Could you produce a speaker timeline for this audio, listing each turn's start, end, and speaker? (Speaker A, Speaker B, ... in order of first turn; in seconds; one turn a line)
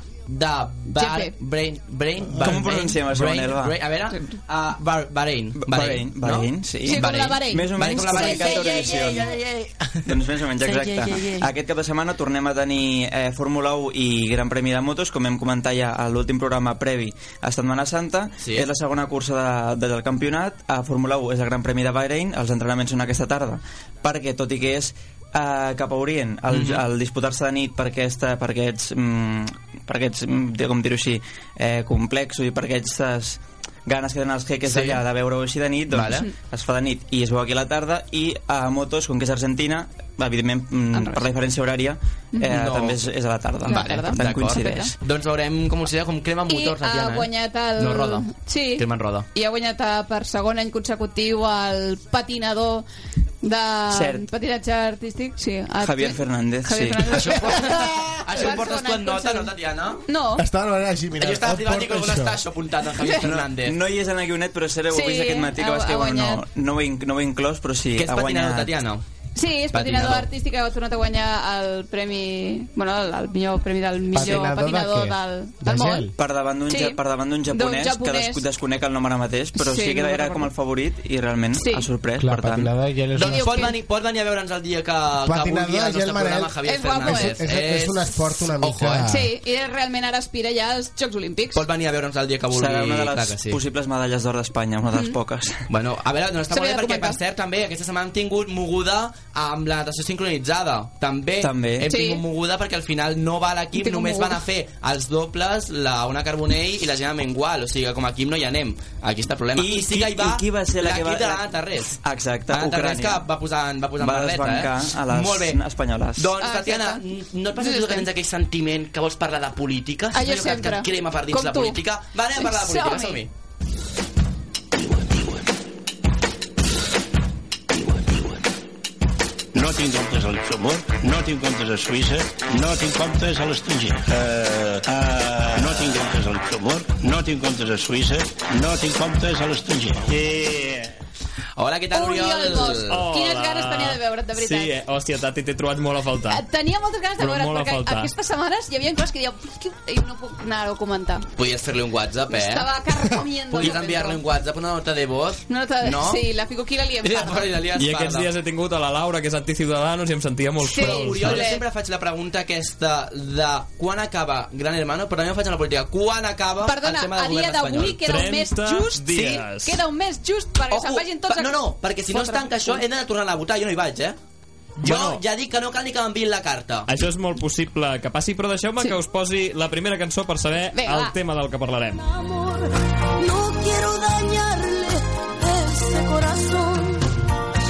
Speaker A: 0.3-10.1
Speaker B: 1.0-1.3
Speaker C: 2.3-3.8
Speaker C: 5.6-9.3
Speaker B: 6.8-9.2
Speaker C: 10.1-44.9
Speaker A: 10.6-11.4
Speaker A: 18.4-18.6
Speaker A: 26.5-26.8
Speaker A: 34.7-35.0
Speaker A: 35.9-36.3
Speaker B: 40.9-41.2
Speaker A: 42.5-43.1
Speaker B: 43.6-44.9
Speaker A: 43.6-49.2
Speaker B: 46.5-52.8
Speaker B: 53.4-59.5
Speaker C: 53.9-54.2
Speaker C: 55.8-57.2
Speaker A: 57.1-60.0
Speaker B: 60.1-60.5
Speaker D: 60.4-62.4
Speaker A: 61.2-63.8
Speaker B: 63.0-63.2
Speaker C: 63.2-68.7
Speaker B: 64.9-66.4
Speaker A: 68.0-69.0
Speaker B: 69.3-76.1
Speaker A: 69.7-70.3
Speaker D: 74.1-76.1
Speaker C: 76.2-82.7
Speaker B: 76.7-77.0
Speaker B: 77.5-78.4
Speaker B: 79.6-80.5
Speaker B: 81.5-81.9
Speaker D: 82.2-83.6
Speaker A: 83.1-89.2
Speaker B: 83.2-83.7
Speaker D: 85.2-89.2
Speaker B: 86.7-87.4
Speaker B: 89.1-91.6
Speaker A: 91.5-93.6
Speaker C: 92.5-95.6
Speaker A: 95.7-115.6
Speaker B: 96.5-97.2
Speaker C: 101.4-101.9
Speaker B: 101.9-102.2
Speaker B: 103.7-104.4
Speaker C: 109.5-111.5
Speaker C: 112.0-113.3
Speaker C: 114.0-116.3
Speaker A: 116.2-123.3
Speaker B: 116.4-117.0
Speaker B: 117.6-118.0
Speaker B: 120.1-121.8
Speaker B: 122.4-123.2
Speaker E: 129.5-140.2
Speaker A: 141.6-143.1
Speaker B: 141.9-144.7
Speaker F: 142.9-146.4
Speaker B: 146.3-151.3
Speaker F: 147.2-148.1
Speaker A: 151.3-156.2
Speaker B: 152.3-154.2
Speaker B: 155.5-157.5
Speaker A: 157.0-158.3
Speaker F: 157.8-161.5
Speaker B: 160.6-161.6
Speaker A: 160.7-168.2
Speaker B: 166.7-172.8
Speaker F: 167.9-169.8
Speaker A: 169.1-169.4
Speaker A: 170.7-174.2
Speaker F: 174.8-175.2
Speaker A: 174.8-176.9
Speaker F: 176.9-182.0
Speaker B: 180.7-181.1
Speaker G: 182.0-187.0